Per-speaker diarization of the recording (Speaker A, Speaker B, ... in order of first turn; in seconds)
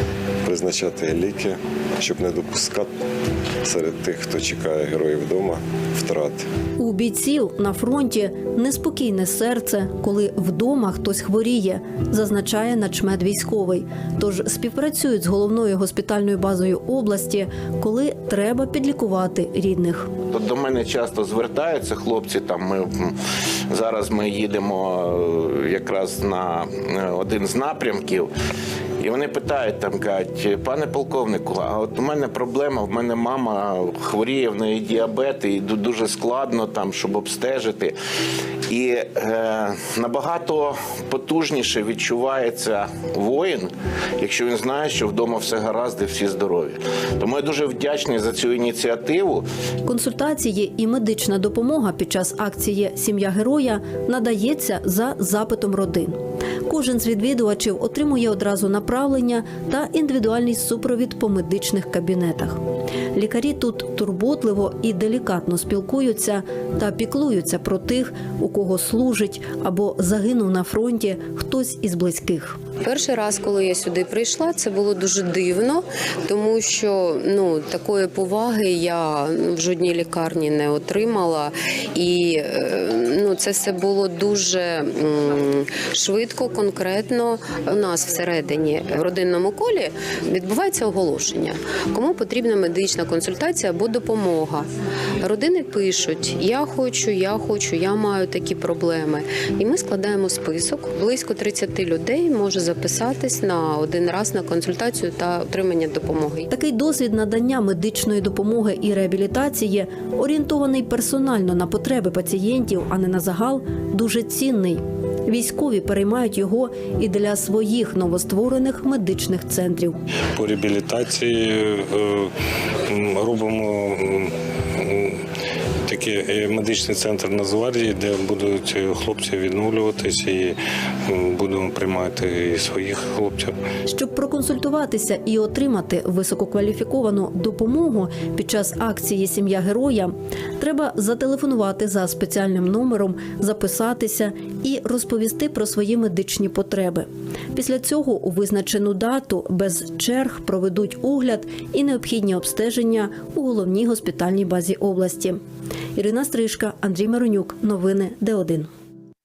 Speaker A: 0.4-2.9, 3.6-6.5
Speaker B: 6.8-20.1, 49.8-62.6, 63.1-72.6, 106.5-120.0, 133.9-155.4, 156.0-158.7
Speaker C: 20.3-23.1, 23.7-28.3, 29.0-38.0, 38.7-49.5
Speaker D: 72.8-94.7, 95.2-106.5
Speaker E: 120.4-122.2, 122.9-124.3, 125.9-130.5, 131.1-133.6